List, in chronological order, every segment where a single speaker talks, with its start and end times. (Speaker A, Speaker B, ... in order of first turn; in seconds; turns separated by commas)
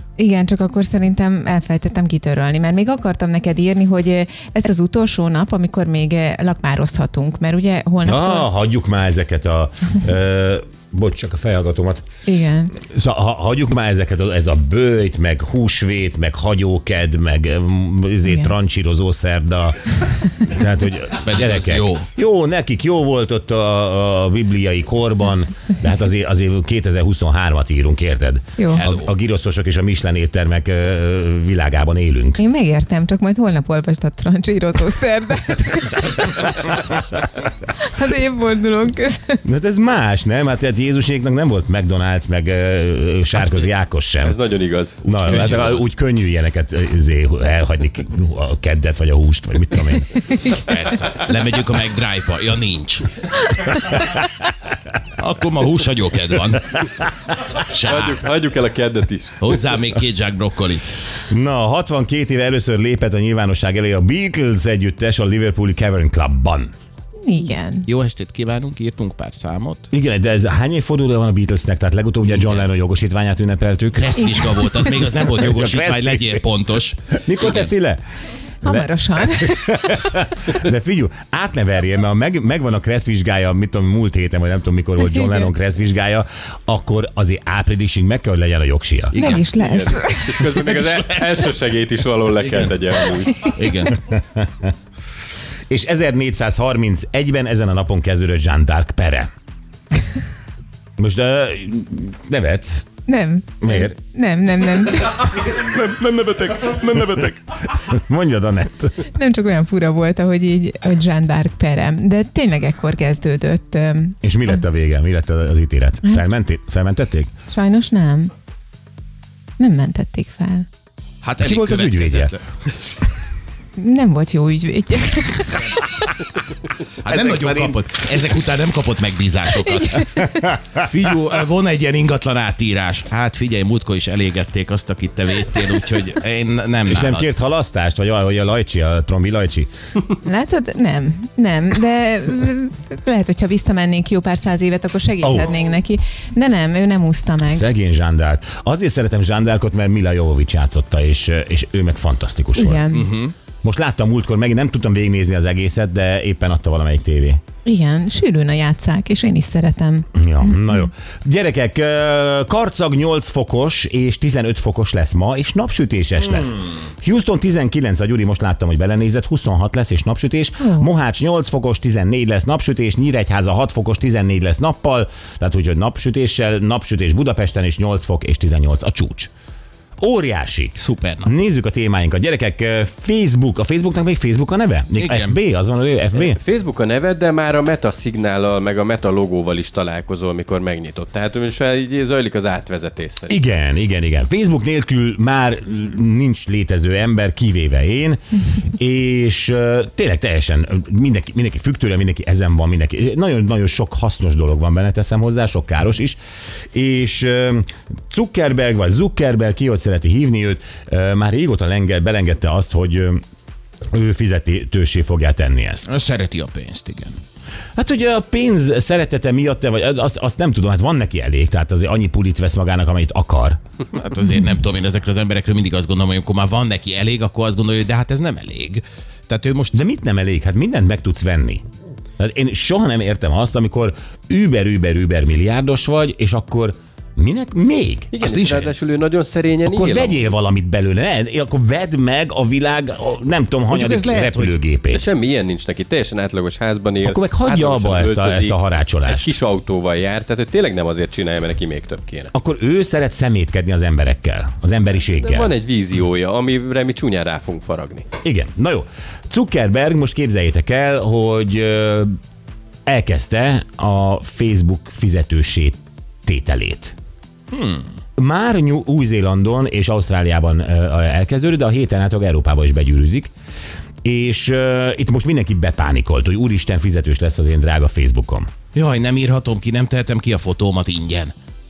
Speaker A: 0.2-8.5, Speaker B: 8.0-12.0, Speaker A: 12.2-12.7, Speaker B: 12.8-32.4, Speaker C: 21.2-22.1, Speaker A: 28.6-28.9, Speaker C: 28.7-29.1, Speaker A: 32.4-37.0, Speaker A: 37.7-39.4, Speaker B: 39.4-44.4, Speaker D: 44.2-45.0, Speaker B: 45.0-50.4, Speaker C: 45.2-45.8, Speaker C: 50.4-53.2, Speaker C: 55.2-56.8, Speaker C: 57.6-58.2, Speaker D: 57.8-59.6, Speaker C: 59.4-61.0, Speaker B: 61.1-66.7, Speaker A: 67.2-67.9, Speaker C: 67.9-69.9, Speaker B: 69.9-76.5, Speaker C: 72.3-72.7, Speaker C: 73.9-77.7, Speaker B: 77.1-78.0, Speaker A: 78.6-80.1, Speaker B: 78.6-89.2, Speaker C: 89.1-89.9, Speaker A: 89.1-90.4, Speaker D: 89.6-93.5, Speaker C: 92.4-92.8, Speaker C: 93.4-94.0, Speaker B: 93.9-94.7, Speaker B: 95.7-99.3, Speaker B: 101.0-102.9, Speaker A: 103.0-105.4, Speaker B: 103.6-104.0, Speaker C: 105.6-107.4, Speaker B: 107.6-109.0, Speaker A: 109.1-114.2, Speaker B: 114.2-117.3, Speaker A: 117.5-118.3, Speaker A: 119.6-120.7, Speaker C: 121.2-122.8, Speaker B: 121.4-122.3, Speaker A: 123.8-125.8, Speaker C: 127.0-130.1, Speaker B: 127.0-127.8, Speaker A: 129.6-130.5, Speaker B: 130.1-130.6, Speaker C: 130.8-137.2, Speaker B: 136.9-139.7, Speaker A: 140.2-147.7, Speaker B: 145.2-145.5, Speaker B: 147.4-152.9, Speaker A: 152.6-153.1, Speaker C: 152.9-153.3, Speaker B: 153.6-157.4, Speaker A: 157.6-160.8, Speaker B: 160.1-179.3, Speaker A: 170.6-170.9, Speaker B: 180.0-186.4, Speaker C: 180.8-181.3, Speaker C: 184.9-185.4, Speaker D: 186.1-193.3, Speaker B: 193.3-198.2, Speaker B: 198.7-206.2, Speaker B: 206.7-213.2, Speaker B: 213.9-215.9, Speaker C: 215.9-217.2, Speaker B: 217.8-223.6, Speaker C: 223.9-229.8, Speaker B: 229.7-231.6, Speaker B: 232.2-238.1, Speaker D: 238.1-240.2, Speaker C: 238.2-238.7, Speaker B: 239.6-245.1, Speaker C: 243.7-244.6, Speaker D: 244.9-252.3, Speaker B: 247.0-249.3, Speaker B: 252.3-255.5, Speaker D: 255.2-258.1, Speaker B: 258.2-262.1, Speaker B: 262.9-266.9, Speaker C: 267.5-267.9, Speaker B: 268.2-273.3, Speaker B: 274.0-278.5, Speaker C: 278.7-281.3